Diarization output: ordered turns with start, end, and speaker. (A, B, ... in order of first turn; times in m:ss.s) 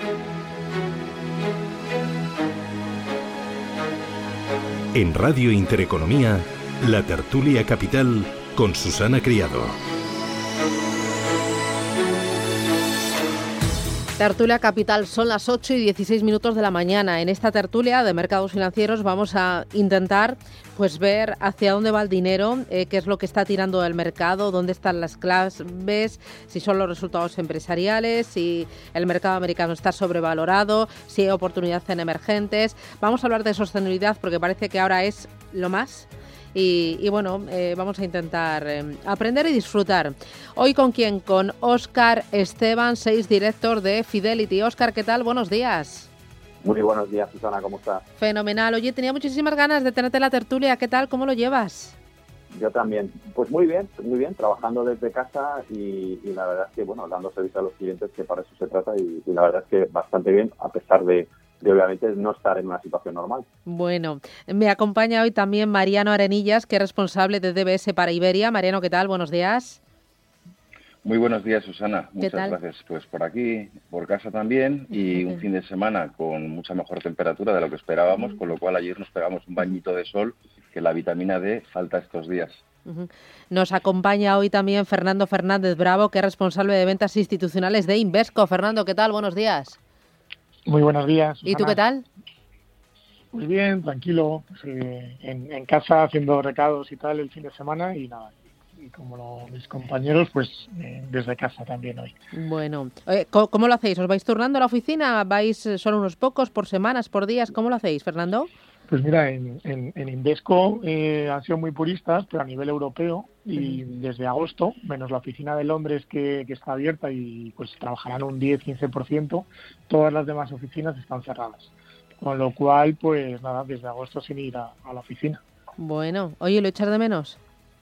0:04.9-0:09.8 A
0:14.2-0:46.1 B
0:46.6-0:48.0 C
0:48.2-0:52.0 B
0:52.5-1:03.4 C
1:03.7-1:09.8 B
1:11.0-1:22.6 D
1:12.2-1:12.6 B
1:22.8-1:29.8 B
1:30.7-1:31.8 E
1:31.4-1:32.0 B
1:33.3-1:42.1 E
1:42.3-1:48.5 B
1:48.9-2:05.4 E
2:05.8-2:07.4 B